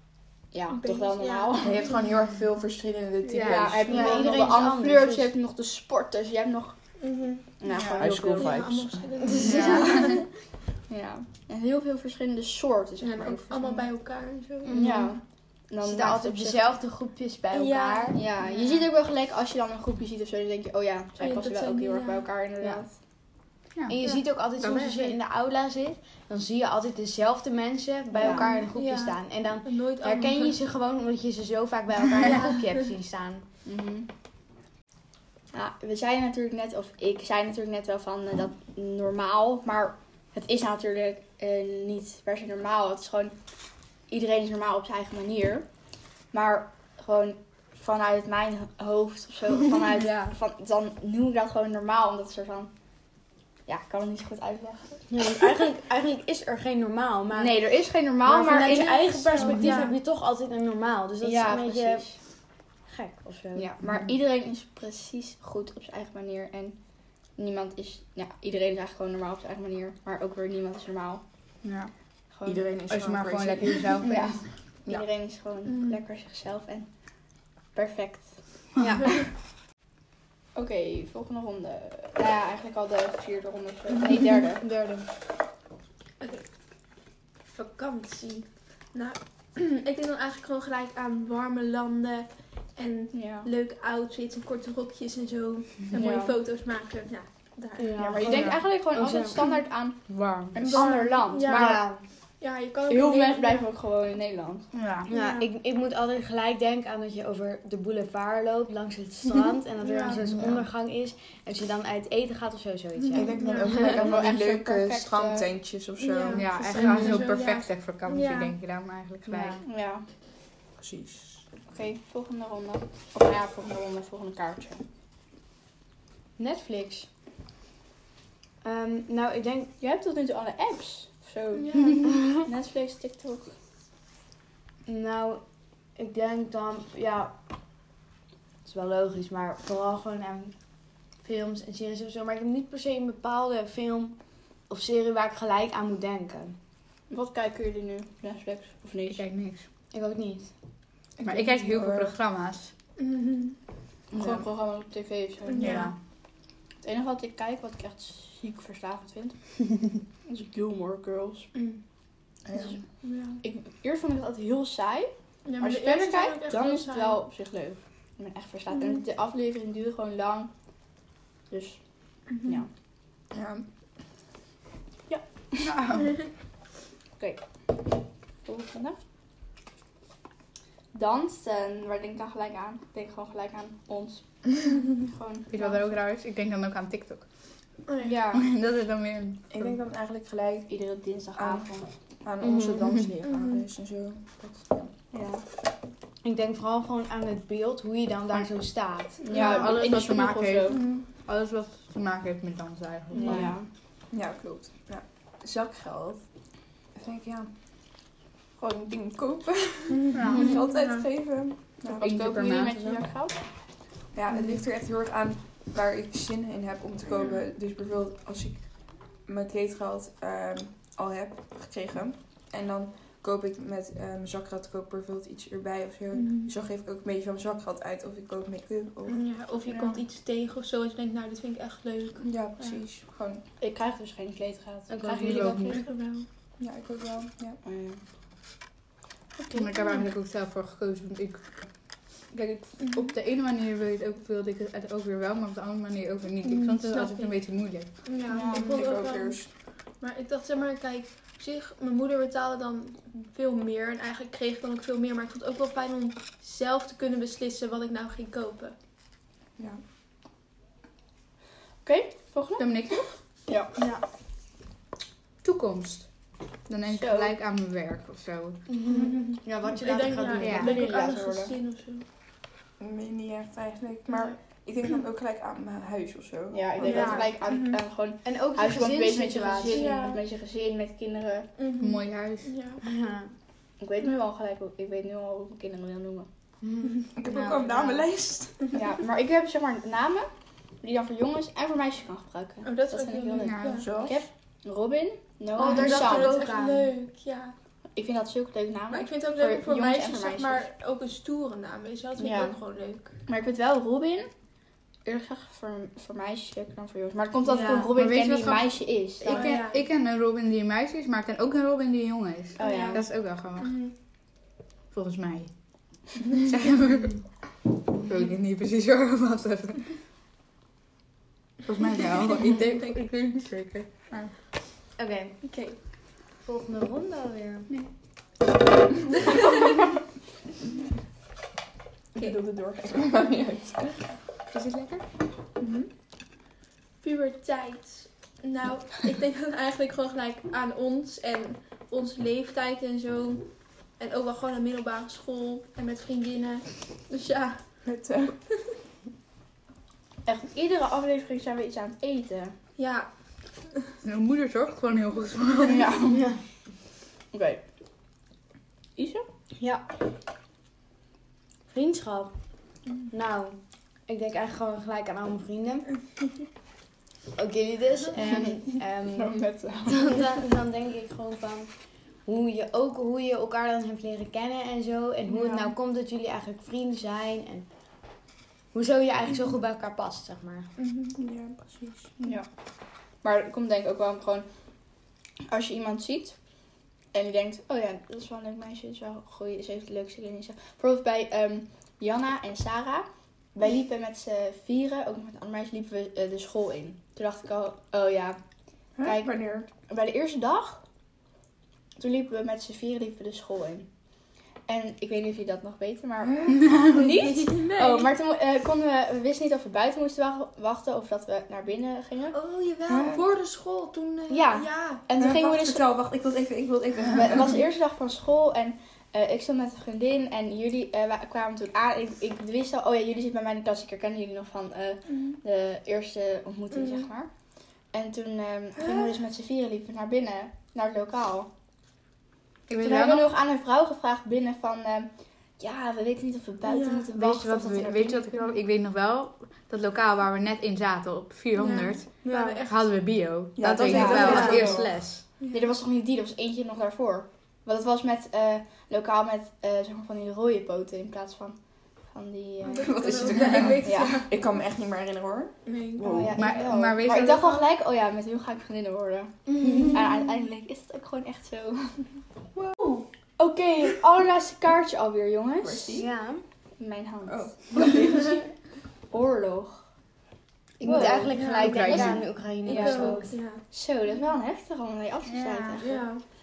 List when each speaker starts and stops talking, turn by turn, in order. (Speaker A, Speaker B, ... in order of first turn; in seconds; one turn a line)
Speaker A: 0.5-2.0
Speaker B: 0.7-1.8
Speaker C: 1.6-4.5
Speaker D: 3.2-3.7
Speaker A: 3.4-6.8
Speaker E: 3.8-5.3
Speaker B: 7.0-7.5
Speaker A: 7.6-8.6
Speaker D: 7.7-8.1
Speaker C: 7.9-9.6
Speaker B: 8.3-10.2
Speaker D: 9.4-10.2
Speaker A: 9.4-10.2
Speaker A: 10.9-13.9
Speaker B: 13.0-14.8
Speaker E: 14.6-15.2
Speaker A: 14.7-16.7
Speaker E: 15.8-18.2
Speaker B: 17.5-18.2
Speaker A: 18.1-22.9
Speaker D: 18.6-18.8
Speaker B: 21.2-22.2
Speaker E: 23.9-33.5
Speaker D: 24.6-25.2
Speaker A: 28.1-28.6
Speaker B: 28.2-30.6
Speaker B: 32.2-32.7
Speaker A: 33.6-34.1
Speaker A: 35.5-43.3
Speaker A: 44.1-45.6
Speaker A: 46.3-52.7
Speaker D: 49.9-50.4
Speaker A: 53.7-55.3
Speaker E: 55.1-57.7
Speaker A: 57.3-59.9
Speaker E: 58.2-62.2
Speaker B: 59.3-59.9
Speaker A: 61.2-62.1
Speaker E: 62.8-63.7
Speaker A: 63.5-66.8
Speaker A: 67.3-71.2
Speaker D: 71.6-71.9
Speaker A: 72.3-72.8
Speaker C: 72.5-74.0
Speaker D: 72.9-74.5
Speaker A: 74.0-76.9
Speaker B: 75.7-76.0
Speaker A: 77.7-79.2
Speaker E: 78.8-79.1
Speaker A: 80.5-84.7
Speaker D: 84.6-85.1
Speaker B: 86.2-86.4
Speaker B: 87.5-98.0
Speaker A: 93.1-93.5
Speaker A: 95.9-96.4
Speaker E: 97.8-99.4
Speaker A: 98.0-101.9
Speaker D: 98.2-98.7
Speaker D: 100.1-100.9
Speaker B: 100.6-101.8
Speaker E: 101.5-102.0
Speaker B: 102.4-103.7
Speaker A: 102.9-104.7
Speaker D: 104.7-105.1
Speaker B: 105.1-105.5
Speaker E: 105.1-114.1
Speaker B: 109.8-110.3
Speaker D: 110.2-110.7
Speaker B: 113.0-113.8
Speaker C: 113.1-117.1
Speaker A: 113.6-115.5
Speaker B: 116.0-118.5
Speaker D: 116.3-119.6
Speaker E: 116.8-117.1
Speaker E: 119.2-119.6
Speaker A: 119.6-120.0
Speaker C: 120.8-121.4
Speaker A: 121.7-124.8
Speaker E: 126.4-127.1
Speaker E: 128.6-129.7
Speaker A: 129.8-133.5
Speaker B: 131.5-132.0
Speaker E: 134.8-135.4
Speaker E: 135.9-137.3
Speaker E: 138.6-140.5
Speaker E: 141.2-146.6
Speaker A: 147.1-149.2
Speaker D: 149.1-149.7
Speaker E: 149.9-150.5
Speaker C: 151.2-152.2
Speaker D: 151.2-152.7
Speaker B: 153.0-153.6
Speaker A: 154.1-155.9
Speaker C: 154.1-154.4
Speaker B: 155.4-155.9
Speaker D: 155.6-155.9
Speaker A: 156.8-159.4
Speaker A: 160.2-161.5
Speaker B: 161.5-161.8
Speaker C: 162.5-162.8
Speaker B: 163.0-163.4
Speaker A: 163.4-170.5
Speaker B: 165.4-167.2
Speaker B: 168.7-169.0
Speaker A: 171.5-171.8
Speaker B: 172.3-172.6
Speaker C: 173.3-173.6
Speaker A: 175.1-175.7
Speaker D: 175.6-176.2
Speaker A: 178.4-179.0
Speaker A: 180.9-186.0
Speaker D: 185.5-187.2
Speaker B: 187.9-188.2
Speaker A: 188.0-188.4
Speaker D: 188.3-189.8
Speaker C: 189.5-190.7
Speaker A: 190.7-191.9
Speaker C: 191.3-194.9
Speaker E: 192.4-192.9
Speaker B: 193.2-193.7
Speaker A: 195.1-195.4
Speaker E: 196.2-199.4
Speaker A: 199.2-200.8
Speaker D: 199.3-203.5
Speaker B: 200.7-201.0
Speaker E: 203.1-203.5
Speaker A: 203.1-203.7
Speaker C: 204.1-206.2
Speaker C: 206.9-207.5
Speaker C: 208.6-213.1
Speaker B: 209.9-211.1
Speaker D: 210.1-210.6
Speaker D: 211.9-212.8
Speaker A: 211.9-213.4
Speaker C: 214.1-229.4
Speaker B: 226.1-226.5
Speaker B: 229.1-232.8
Speaker A: 229.6-230.0
Speaker C: 232.2-233.4
Speaker A: 233.6-235.8
Speaker E: 234.9-235.8
Speaker D: 235.2-235.8
Speaker B: 235.7-236.2
Speaker C: 236.6-237.6
Speaker A: 237.6-238.0
Speaker D: 239.5-247.9
Speaker B: 239.5-240.0
Speaker B: 242.8-243.1
Speaker B: 246.4-249.5
Speaker A: 248.3-249.0
Speaker C: 248.5-249.5
Speaker B: 250.0-258.8
Speaker A: 261.8-263.7
Speaker D: 262.6-263.1
Speaker E: 263.8-264.0
Speaker D: 265.4-266.1
Speaker D: 266.7-268.6
Speaker A: 266.9-267.3
Speaker E: 268.7-270.9
Speaker B: 268.9-272.0
Speaker D: 270.4-270.8
Speaker A: 270.6-271.5
Speaker C: 272.8-277.2
Speaker B: 274.1-274.4
Speaker A: 276.5-281.5
Speaker B: 276.8-277.8
Speaker D: 276.9-277.3
Speaker E: 278.2-280.1
Speaker B: 279.6-280.2
Speaker B: 281.6-282.8
Speaker D: 281.8-282.5
Speaker E: 282.8-283.3
Speaker A: 283.8-286.3
Speaker E: 286.6-287.0
Speaker C: 287.1-288.8
Speaker D: 287.3-287.8
Speaker A: 287.7-288.0
Speaker A: 288.7-290.3
Speaker A: 290.8-296.4
Speaker B: 292.6-294.0
Speaker D: 293.4-294.1
Speaker C: 293.8-294.2
Speaker E: 295.6-296.9
Speaker B: 295.6-297.5
Speaker A: 297.9-300.7
Speaker B: 298.9-303.2
Speaker A: 302.2-302.6
Speaker A: 303.3-304.3
Speaker A: 305.0-309.6
Speaker B: 307.4-307.9
Speaker D: 307.9-313.8
Speaker B: 309.2-309.9
Speaker A: 312.6-313.0
Speaker B: 312.6-313.9
Speaker D: 314.9-315.5
Speaker D: 316.5-317.2
Speaker D: 318.0-319.9
Speaker D: 321.6-324.3
Speaker E: 325.0-325.4
Speaker B: 325.4-325.8
Speaker E: 326.4-327.7
Speaker C: 332.1-334.1
Speaker D: 334.5-335.0
Speaker C: 335.6-335.9
Speaker B: 337.0-347.6
Speaker C: 347.8-348.4
Speaker A: 350.2-352.5
Speaker B: 352.8-353.1
Speaker D: 354.0-355.9
Speaker A: 355.6-356.3
Speaker E: 356.0-356.4
Speaker A: 357.3-357.6
Speaker A: 358.9-359.2
Speaker E: 359.6-359.9
Speaker E: 361.7-362.3
Speaker E: 363.1-365.9
Speaker E: 367.3-377.7
Speaker A: 368.1-370.4
Speaker C: 375.3-375.7
Speaker E: 378.7-380.7
Speaker B: 380.8-381.1
Speaker C: 381.1-382.1
Speaker A: 382.2-382.4
Speaker A: 383.2-384.4
Speaker A: 385.5-386.4
Speaker A: 387.1-398.4
Speaker C: 399.0-399.7
Speaker A: 399.0-400.8
Speaker A: 402.0-403.9
Speaker A: 404.7-412.4
Speaker C: 406.2-406.7
Speaker D: 406.6-406.9
Speaker B: 407.0-408.1
Speaker B: 412.3-415.0
Speaker C: 412.9-413.2
Speaker A: 414.3-415.9
Speaker C: 415.1-417.6
Speaker A: 417.1-427.3
Speaker B: 425.1-425.4
Speaker B: 426.7-427.1
Speaker A: 427.9-431.5
Speaker B: 428.8-429.2
Speaker D: 432.7-433.3
Speaker A: 432.8-438.4
Speaker B: 436.6-437.1
Speaker D: 437.1-445.2
Speaker B: 441.5-442.9
Speaker E: 442.2-442.6
Speaker C: 443.6-444.8
Speaker A: 443.9-444.9
Speaker E: 443.9-445.2
Speaker B: 445.4-445.7
Speaker A: 445.5-451.6
Speaker A: 452.1-454.3
Speaker B: 452.6-454.3
Speaker C: 452.8-456.4
Speaker B: 455.6-456.1
Speaker A: 456.0-462.1
Speaker D: 456.3-457.4
Speaker B: 457.1-457.7
Speaker E: 459.6-460.0
Speaker C: 462.5-463.0
Speaker A: 463.4-466.1
Speaker C: 465.6-466.1
Speaker E: 465.9-466.4
Speaker A: 466.8-468.4
Speaker C: 467.2-468.4
Speaker A: 469.1-469.8
Speaker E: 470.8-473.4
Speaker A: 470.8-476.1
Speaker B: 471.3-471.9
Speaker D: 471.6-472.4
Speaker B: 472.5-474.2
Speaker D: 475.2-475.8
Speaker B: 475.8-476.2